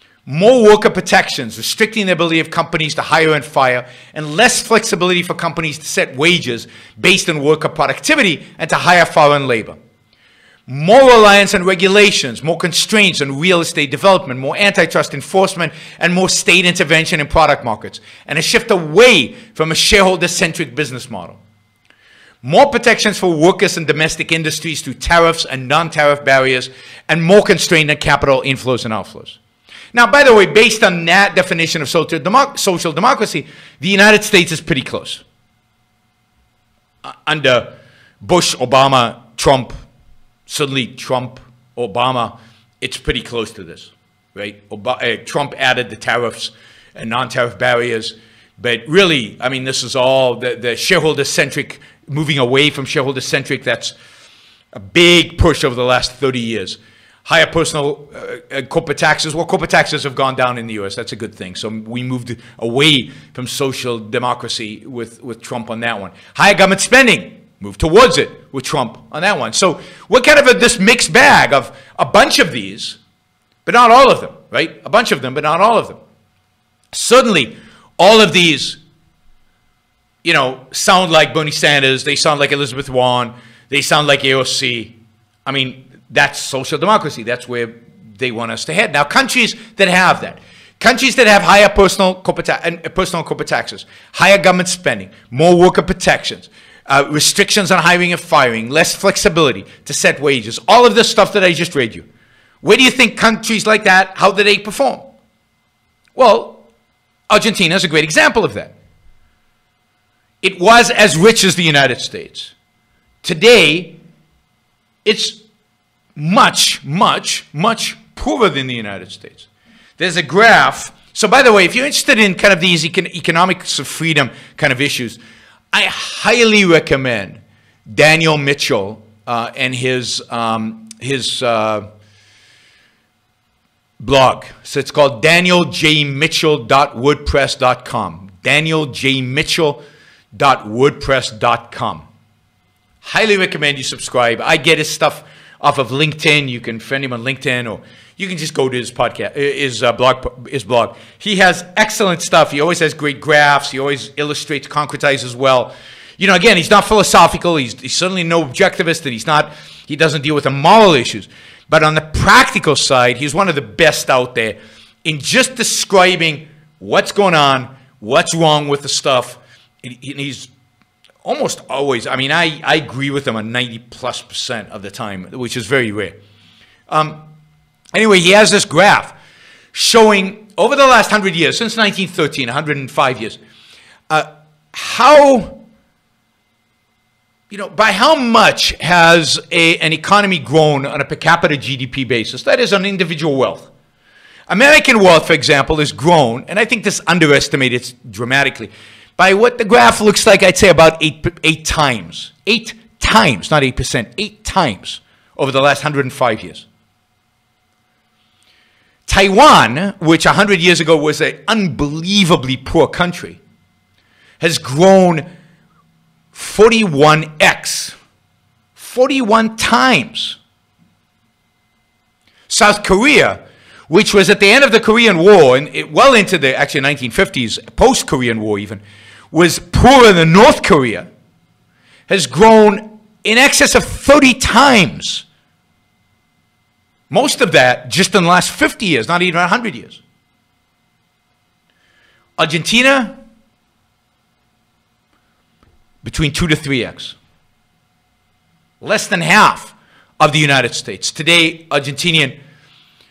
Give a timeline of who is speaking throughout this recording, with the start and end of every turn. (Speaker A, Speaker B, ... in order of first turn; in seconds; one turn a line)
Speaker A: 0.3-9.8
Speaker A: 10.7-21.4
Speaker A: 22.4-29.4
Speaker A: 29.9-35.2
Speaker A: 37.0-39.8
Speaker A: 40.5-53.9
Speaker A: 54.7-73.0
Speaker A: 73.7-76.0
Speaker A: 76.9-78.8
Speaker A: 80.2-102.1
Speaker A: 102.6-105.1
Speaker A: 106.2-106.7
Speaker A: 107.3-108.8
Speaker A: 110.4-112.5
Speaker A: 113.2-114.0
Speaker A: 115.0-115.4
Speaker A: 116.2-125.2
Speaker A: 125.7-131.9
Speaker A: 134.0-139.8
Speaker A: 140.3-142.1
Speaker A: 143.0-170.5
Speaker A: 171.2-176.2
Speaker A: 176.9-177.3
Speaker A: 177.9-179.2
Speaker A: 179.7-183.4
Speaker A: 184.1-185.6
Speaker A: 187.5-193.7
Speaker A: 194.5-206.7
Speaker A: 209.1-213.4
Speaker A: 214.4-215.3
Speaker A: 216.3-217.9
Speaker A: 218.8-220.4
Speaker A: 222.5-228.8
Speaker A: 229.3-231.1
Speaker A: 232.1-235.3
Speaker A: 237.1-240.0
Speaker A: 242.4-243.2
Speaker A: 246.0-247.2
Speaker A: 248.8-252.4